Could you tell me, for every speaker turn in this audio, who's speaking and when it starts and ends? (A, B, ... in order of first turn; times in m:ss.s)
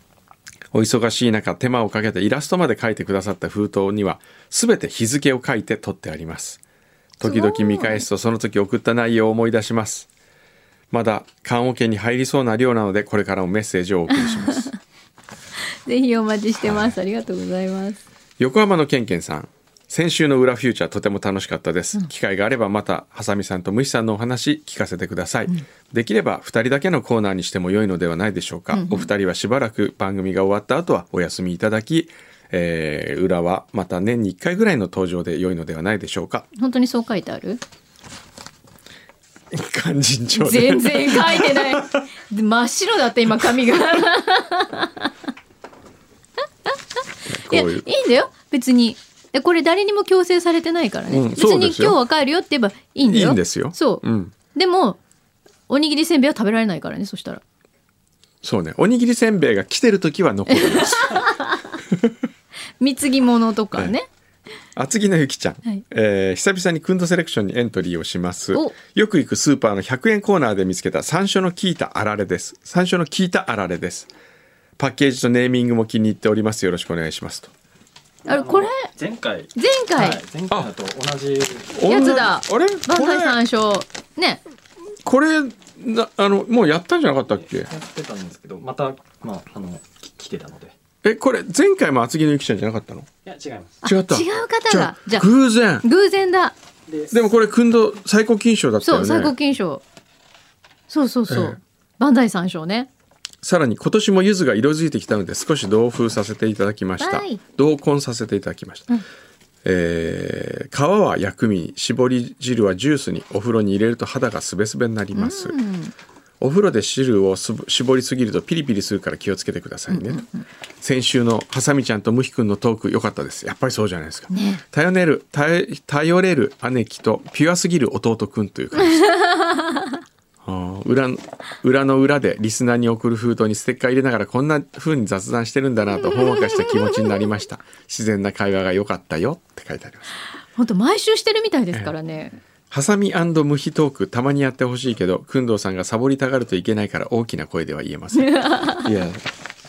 0:00.7-0:06.6 A
0:07.2-0:10.1 A
0:07.2-0:08.0 B
0:10.9-0:14.7 A
0:14.1-0:14.8 B
0:15.8-0:18.0 B
0:16.6-0:17.0 A
0:18.4-0:36.5 A
0:28.7-0:29.1 B
0:36.5-0:37.6 B
0:39.5-0:42.0 A
0:40.3-0:45.1 B
0:47.2-0:47.9 A
0:47.5-0:55.0 B
0:51.1-0:52.0 A
0:53.0-0:54.3 A
0:55.7-0:57.4 B
0:58.4-1:01.3 A
1:00.5-1:01.7 B
1:02.8-1:04.1 B
1:04.8-1:14.1 A
1:14.8-1:17.5 A
1:18.2-1:21.8 C
1:18.3-1:18.9 B
1:19.5-1:20.2 B
1:21.7-1:23.4 A
1:21.8-1:24.4 B
1:25.0-1:27.7 A
1:27.3-1:30.8 C
1:31.0-1:33.1 A
1:33.2-1:33.8 C
1:33.8-1:35.8 A
1:33.8-1:36.6 B
1:36.9-1:37.2 C
1:37.1-1:39.3 A
1:38.8-1:39.8 B
1:40.9-1:42.9 B
1:41.3-1:41.6 A
1:43.4-1:49.0 A
1:47.0-1:47.4 B
1:49.6-1:55.6 A
1:55.1-1:55.9 B
1:56.4-2:00.2 A
1:59.9-2:00.5 B
2:00.8-2:09.1 A
2:04.3-2:04.6 B
2:08.8-2:10.0 B
2:10.4-2:20.1 A
2:16.0-2:16.7 B
2:20.5-2:22.4 B
2:22.7-2:29.2 A
2:28.1-2:28.9 B